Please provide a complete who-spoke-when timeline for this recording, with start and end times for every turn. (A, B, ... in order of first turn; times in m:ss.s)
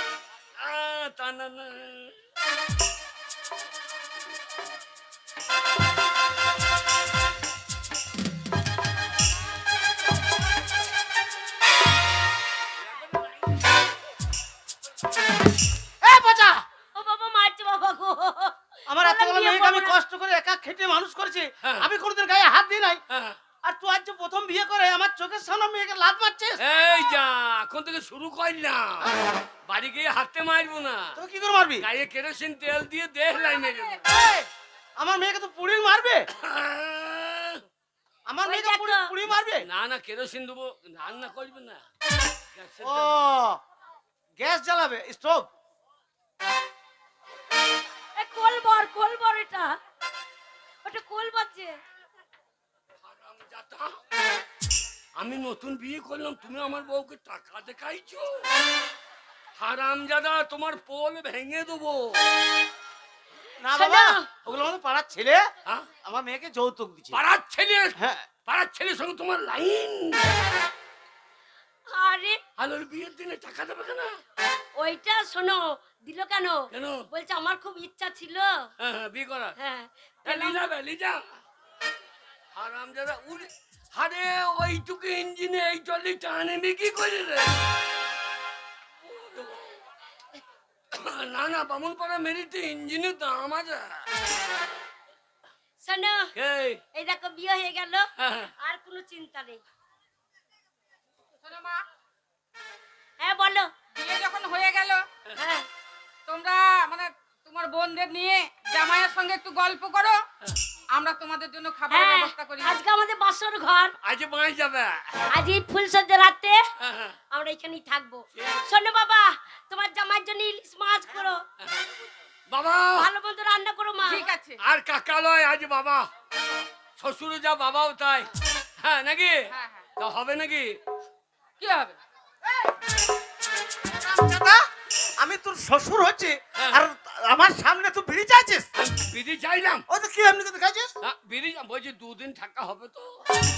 0:00.6-0:02.2 A
0:12.8-0:13.6 A
0:16.0-0:16.6 B
0:17.0-0:20.0 C
0:18.9-0:23.0 B
0:21.6-0:21.9 A
0:23.1-0:23.4 A
0:23.6-0:26.6 B
0:26.6-0:29.1 A
0:29.7-0:31.2 A
0:31.2-0:31.8 B
0:31.8-0:34.1 A
0:34.1-0:34.5 B
0:35.0-0:36.2 B
0:36.3-0:37.6 A
0:38.3-0:39.7 B
0:38.4-0:39.1 C
0:39.6-0:41.8 A
0:42.6-0:43.2 A
0:42.8-0:43.6 B
0:44.4-0:45.5 B
0:48.2-0:49.8 C
0:50.8-0:51.8 C
0:53.0-0:53.9 A
0:55.2-0:58.5 A
0:59.6-1:02.2 A
1:03.6-1:05.4 B
1:03.7-1:04.3 C
1:06.0-1:07.2 B
1:07.1-1:10.3 A
1:08.0-1:08.3 B
1:11.9-1:12.4 C
1:12.6-1:14.2 A
1:14.8-1:18.7 C
1:16.7-1:17.1 A
1:18.8-1:19.6 A
1:19.6-1:20.6 C
1:20.2-1:21.2 A
1:22.5-1:27.6 A
1:29.0-1:29.9 A
1:30.9-1:34.1 A
1:35.8-1:36.3 C
1:36.4-1:36.8 A
1:36.9-1:39.6 C
1:38.2-1:38.5 A
1:41.4-1:41.8 D
1:43.2-1:43.7 C
1:44.0-1:45.1 D
1:45.4-1:45.7 C
1:46.3-1:50.2 D
1:50.9-1:52.8 D
1:51.9-1:53.9 C
1:54.0-1:55.2 A
1:55.3-1:56.6 C
1:56.8-1:57.2 A
1:57.3-2:01.4 C
1:58.4-1:58.6 A
2:01.6-2:03.1 A
2:03.0-2:04.3 C
2:04.0-2:04.6 D
2:04.6-2:06.1 A
2:07.0-2:09.4 A
2:09.5-2:09.9 D
2:10.0-2:10.8 A
2:11.6-2:12.0 D
2:13.8-2:14.6 B
2:15.2-2:18.7 B
2:16.6-2:16.8 A
2:18.8-2:19.8 A
2:19.9-2:20.9 B
2:21.0-2:23.1 A